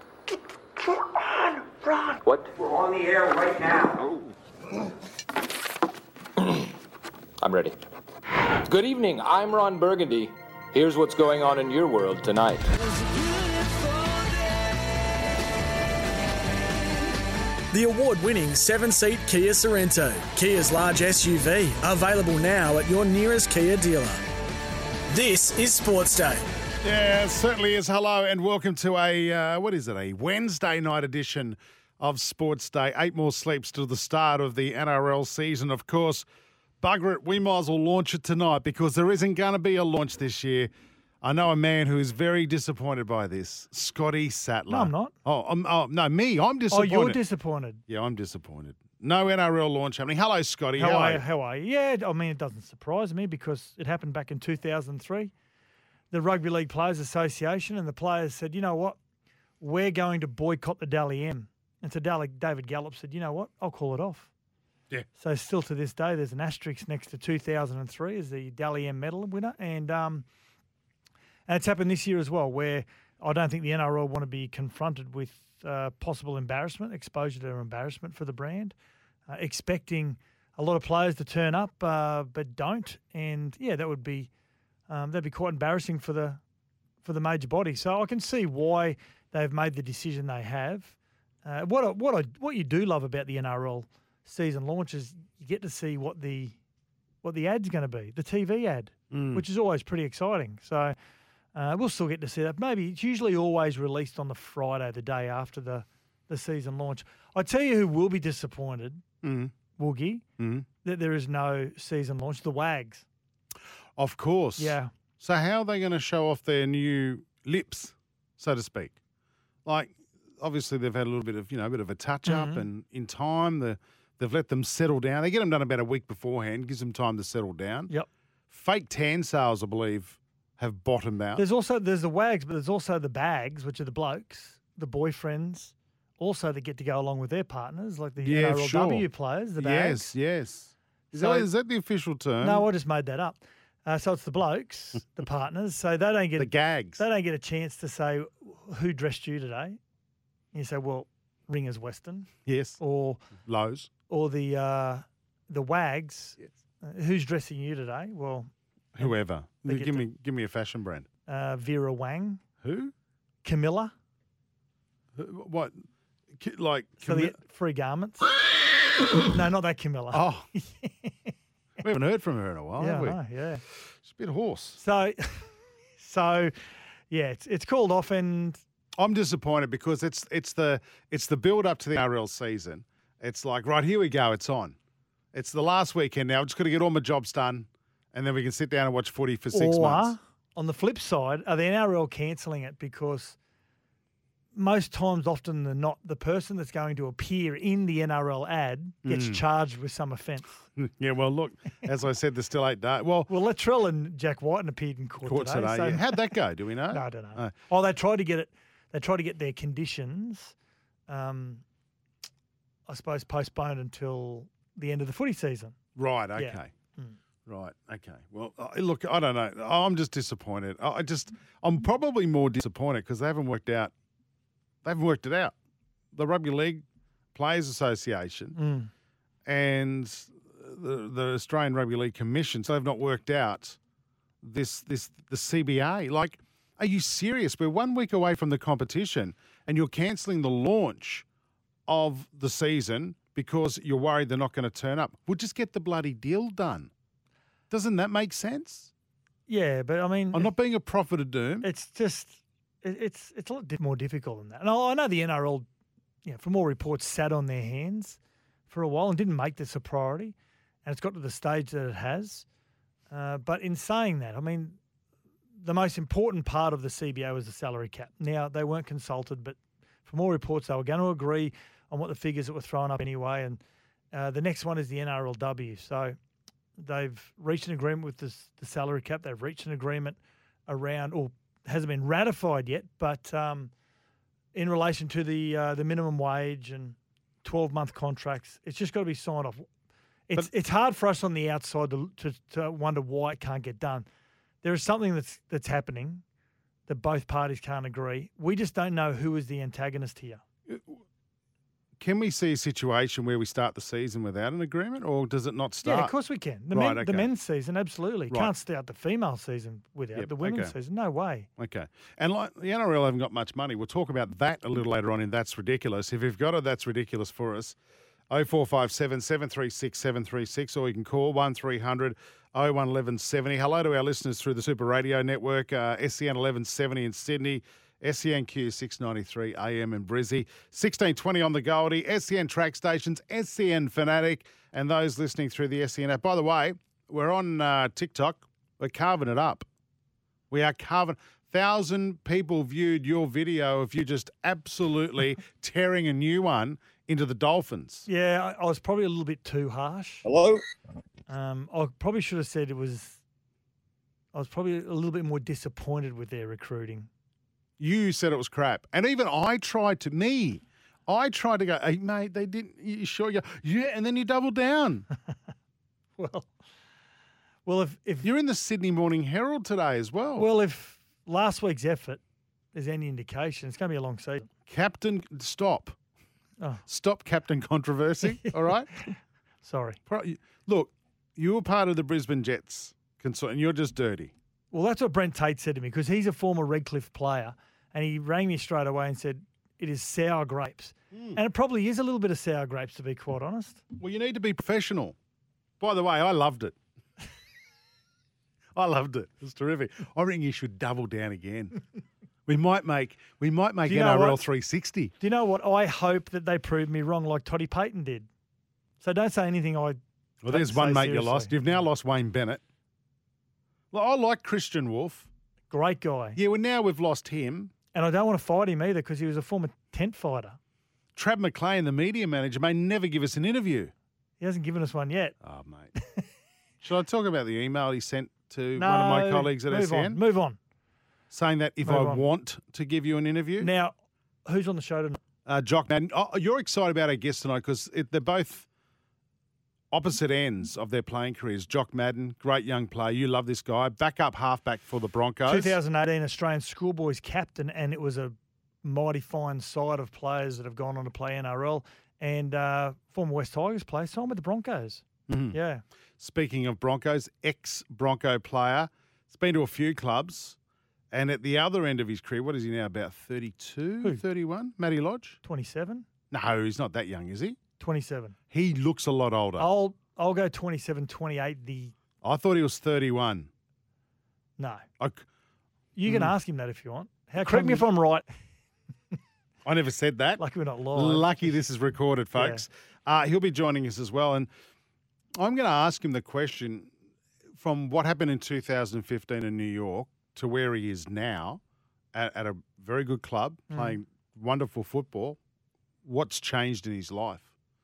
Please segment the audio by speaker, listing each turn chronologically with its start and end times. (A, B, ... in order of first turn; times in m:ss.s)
0:02.2-0:02.5 A
0:02.3-0:04.1 B
0:07.4-0:07.7 A
0:08.6-0:12.7 A
0:09.0-0:09.3 B
0:17.7-0:24.2 C
0:25.1-0:26.4 C
0:26.8-0:36.2 D
0:36.8-0:40.7 D
0:41.2-0:47.2 D
0:44.7-0:45.1 E
0:46.7-0:47.8 E
0:47.9-0:51.2 D
0:50.8-0:55.3 E
0:56.1-0:59.0 E
0:59.6-1:04.3 E
1:05.2-1:10.3 E
1:11.5-1:18.7 E
1:19.3-1:24.3 E
1:24.9-1:26.4 E
1:27.0-1:36.6 E
1:37.2-1:40.9 E
1:39.1-1:39.4 D
1:41.5-1:49.0 E
1:49.2-1:49.5 D
1:49.8-1:50.2 E
1:50.4-1:50.6 D
1:50.8-1:53.0 E
1:54.0-1:59.0 D
1:54.6-1:54.9 E
1:59.6-2:07.9 D
2:02.3-2:02.6 E
2:08.5-2:11.4 D
2:11.4-2:20.2 E
2:18.2-2:22.7 D
2:21.1-2:21.5 E
2:22.4-2:29.8 E
2:26.4-2:27.0 D
2:30.5-2:33.2 E
2:32.4-2:32.8 D
2:33.4-2:33.9 D
2:34.1-2:39.1 E
2:38.9-2:41.1 D
2:39.6-2:40.0 E
2:41.3-2:42.4 E
2:42.6-2:42.9 D
2:43.4-2:43.9 E
2:45.2-2:45.8 D
2:46.4-2:47.4 D
2:47.0-2:48.3 E
2:49.2-2:51.3 E
2:50.1-2:50.5 D
2:51.8-2:53.2 D
2:52.8-2:53.6 E
2:54.0-2:54.8 D
2:54.8-2:56.5 E
2:57.1-2:58.6 E
2:59.0-3:04.8 D
3:05.3-3:10.1 D
3:09.5-3:13.4 E
3:14.5-3:20.5 E
3:19.0-3:19.4 D
3:20.8-3:23.3 D
3:23.3-3:26.3 E
3:25.2-3:27.5 D
3:26.9-3:30.5 E
3:31.1-3:31.6 E
3:32.9-3:35.8 E
3:36.0-3:36.7 D
3:36.4-3:37.2 E
3:37.5-3:43.9 D
3:44.8-3:45.5 D
3:46.1-3:46.8 D
3:47.3-3:48.6 D
3:48.6-3:48.9 E
3:49.4-3:53.8 D
3:54.4-4:01.2 D
4:01.9-4:06.9 D
4:07.7-4:08.9 D
4:09.5-4:10.5 E
4:10.3-4:11.7 D
4:11.6-4:15.7 E
4:16.2-4:22.4 E
4:23.1-4:24.8 E
4:25.6-4:33.6 E
4:34.1-4:36.2 E
4:36.8-4:43.7 E
4:44.5-4:49.7 E
4:50.3-4:54.1 E
4:54.6-4:56.2 E
4:56.9-5:00.4 E
5:02.0-5:06.1 D
5:05.8-5:11.5 E
5:06.7-5:07.3 D
5:10.1-5:10.7 D
5:11.6-5:17.8 D
5:18.3-5:39.6 D
5:40.5-5:48.0 D
5:48.1-5:50.3 E
5:51.3-5:53.2 E
5:54.3-5:57.1 E
5:57.8-6:05.0 D
6:06.2-6:06.5 E
6:07.6-6:08.3 E
6:08.2-6:10.5 D
6:10.4-6:12.2 E
6:12.7-6:14.5 E
6:14.7-6:16.0 D
6:16.9-6:18.9 D
6:18.3-6:20.0 E
6:20.1-6:24.3 D
6:24.7-6:33.8 E
6:31.1-6:31.4 D
6:34.0-6:35.2 D
6:35.8-6:36.7 D
6:38.8-6:41.8 D
6:42.4-6:45.1 D
6:43.8-6:44.4 E
6:45.2-6:48.3 E
6:49.0-6:50.0 E
6:50.4-6:52.6 D
6:50.5-6:51.8 E
6:53.9-6:55.3 D
6:55.7-6:56.4 E
6:56.4-6:57.7 D
6:57.9-7:00.6 E
7:01.2-7:03.9 D
7:04.4-7:05.4 E
7:05.4-7:05.9 D
7:06.8-7:10.2 D
7:08.8-7:10.6 E
7:11.3-7:13.7 D
7:11.8-7:12.2 E
7:13.6-7:13.9 E
7:14.4-7:15.2 E
7:15.4-7:18.7 D
7:19.9-7:25.8 D
7:25.5-7:35.8 E
7:35.3-7:35.6 D
7:36.2-7:40.6 D
7:41.1-7:45.4 D
7:45.4-7:46.0 E
7:46.3-7:47.6 D
7:47.8-7:48.4 E
7:48.5-7:49.7 D
7:49.6-7:51.9 E
7:52.2-7:53.5 D
7:54.6-7:54.8 E
7:56.0-7:58.2 E
7:56.0-7:56.3 D
7:57.4-7:57.8 D
7:59.6-8:00.4 D
8:00.4-8:01.6 E
8:00.9-8:04.5 D
8:02.4-8:02.6 E
8:05.4-8:06.9 D
8:07.6-8:11.6 D
8:12.1-8:15.4 D
8:13.7-8:14.0 E
8:16.0-8:17.5 D